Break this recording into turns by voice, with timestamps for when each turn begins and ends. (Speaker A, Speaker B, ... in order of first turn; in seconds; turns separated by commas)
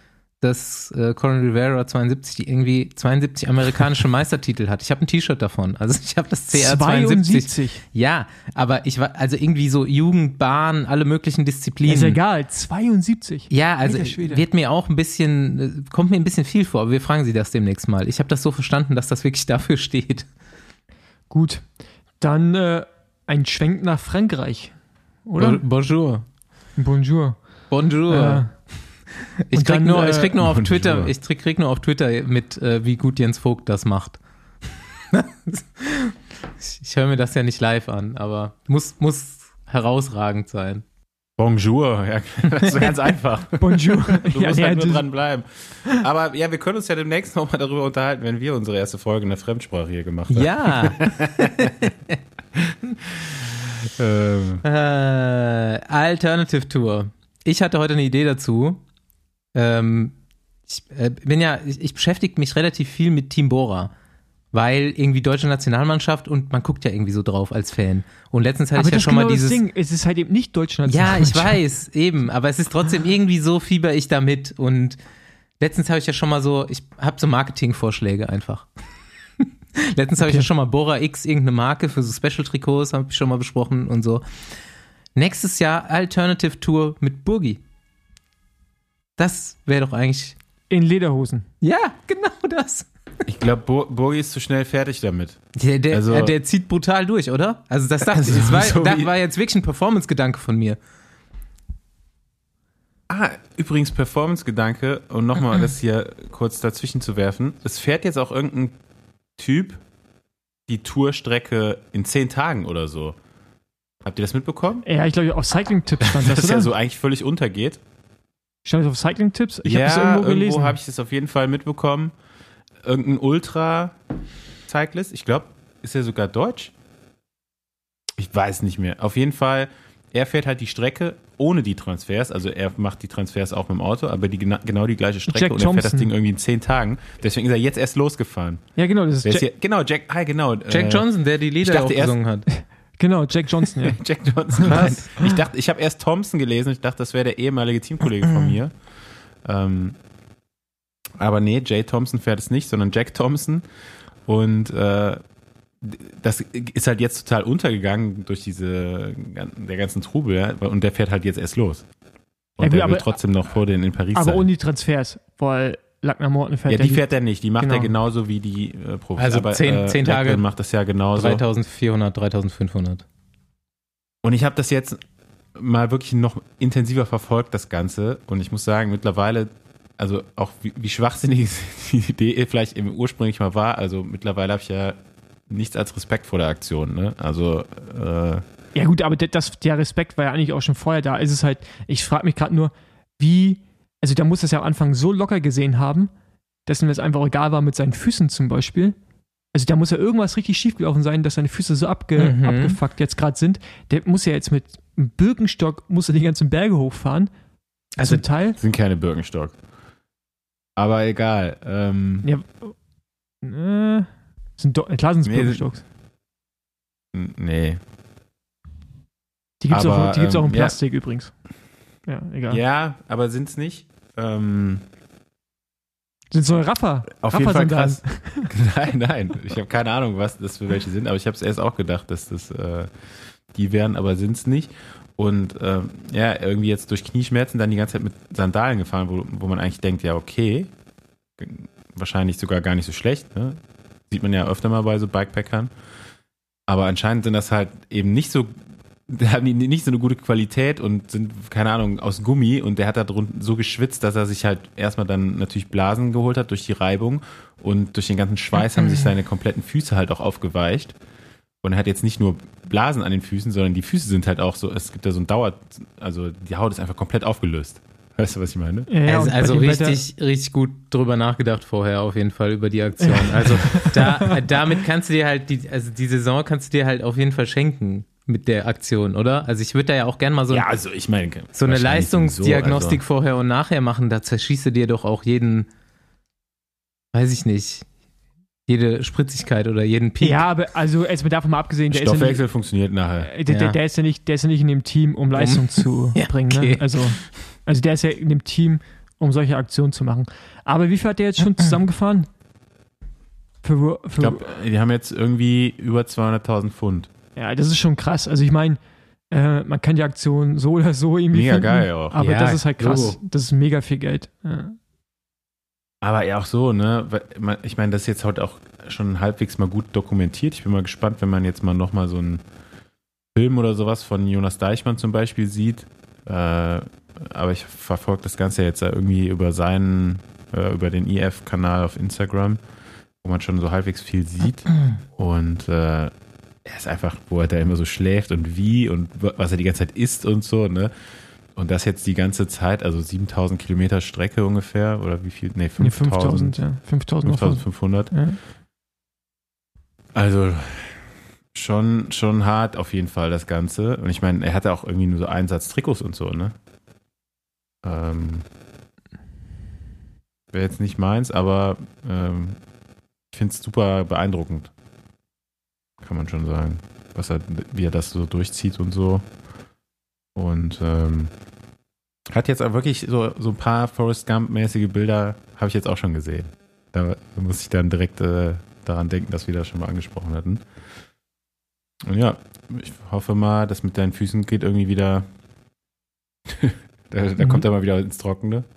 Speaker A: 0.4-12.2, Speaker B: 6.5-7.8, Speaker B: 11.9-14.4, Speaker A: 13.5-20.3, Speaker B: 21.3-25.6, Speaker A: 25.4-26.3, Speaker B: 26.8-28.8, Speaker A: 27.7-34.2, Speaker B: 29.5-30.3, Speaker C: 30.4-31.1, Speaker A: 35.1-40.8, Speaker C: 41.4-51.9, Speaker B: 43.6-45.1, Speaker A: 50.3-51.7, Speaker C: 52.6-54.6, Speaker A: 54.6-58.8, Speaker A: 59.5-60.1, Speaker A: 60.7-63.9, Speaker A: 64.5-69.6, Speaker B: 68.8-71.6, Speaker A: 70.9-75.0, Speaker A: 75.6-78.7, Speaker A: 79.4-84.2, Speaker B: 80.2-80.5, Speaker A: 85.2-87.6, Speaker A: 89.2-90.4, Speaker B: 90.7-91.5, Speaker A: 91.6-92.9, Speaker C: 93.3-96.3, Speaker A: 95.6-100.8, Speaker C: 98.1-99.1, Speaker C: 103.1-108.8, Speaker C: 109.4-109.8, Speaker C: 110.7-113.2, Speaker C: 114.0-114.9, Speaker B: 114.8-116.7, Speaker C: 116.0-117.8, Speaker B: 118.7-120.8, Speaker C: 119.6-122.2, Speaker C: 122.8-124.0, Speaker C: 124.7-126.7, Speaker C: 128.2-142.2, Speaker B: 135.3-136.1, Speaker B: 138.8-139.5, Speaker A: 140.7-142.5, Speaker B: 142.5-144.7, Speaker C: 143.8-150.0, Speaker A: 144.7-145.1, Speaker C: 151.2-153.7, Speaker C: 154.2-155.2, Speaker C: 155.8-161.9, Speaker C: 162.6-164.5, Speaker B: 162.6-163.2, Speaker B: 164.1-167.9, Speaker C: 166.7-171.4, Speaker A: 169.2-170.4, Speaker A: 171.1-173.0, Speaker C: 174.2-175.0, Speaker C: 175.5-188.4, Speaker B: 188.7-196.1, Speaker B: 196.7-199.0, Speaker B: 199.5-207.3, Speaker A: 202.2-202.8, Speaker A: 208.0-208.2, Speaker B: 208.0-208.6, Speaker C: 208.6-209.6, Speaker C: 210.8-212.3, Speaker B: 212.2-212.8, Speaker B: 213.4-215.8, Speaker C: 215.2-215.7, Speaker C: 217.1-217.8, Speaker B: 219.6-221.4, Speaker C: 219.7-221.0, Speaker B: 222.0-222.6, Speaker C: 222.5-224.8, Speaker B: 226.3-228.5, Speaker C: 227.2-232.9, Speaker C: 233.5-240.7, Speaker C: 241.4-245.7, Speaker C: 246.7-248.6, Speaker C: 249.1-261.0, Speaker C: 261.6-268.9, Speaker B: 268.9-270.0, Speaker A: 269.1-280.7, Speaker C: 273.2-274.1, Speaker B: 273.7-274.3, Speaker C: 280.5-283.0, Speaker A: 281.5-285.7, Speaker A: 287.1-287.9, Speaker A: 288.7-290.5, Speaker B: 290.2-292.5, Speaker C: 291.9-293.3, Speaker B: 293.2-302.3, Speaker A: 293.5-293.8, Speaker A: 295.4-297.3, Speaker B: 303.6-304.4, Speaker C: 304.2-307.1, Speaker B: 307.4-314.8, Speaker C: 311.3-312.2, Speaker A: 312.2-313.2, Speaker C: 316.0-322.4, Speaker C: 323.4-332.6, Speaker C: 333.2-336.1, Speaker C: 336.6-340.9, Speaker C: 341.5-348.2, Speaker B: 345.8-348.4, Speaker C: 350.1-356.6, Speaker C: 357.8-358.4, Speaker C: 360.5-362.6, Speaker C: 363.3-364.7, Speaker C: 366.0-369.3, Speaker C: 370.4-371.4, Speaker C: 372.3-380.6, Speaker C: 382.0-385.3, Speaker C: 386.5-388.6, Speaker B: 387.4-387.6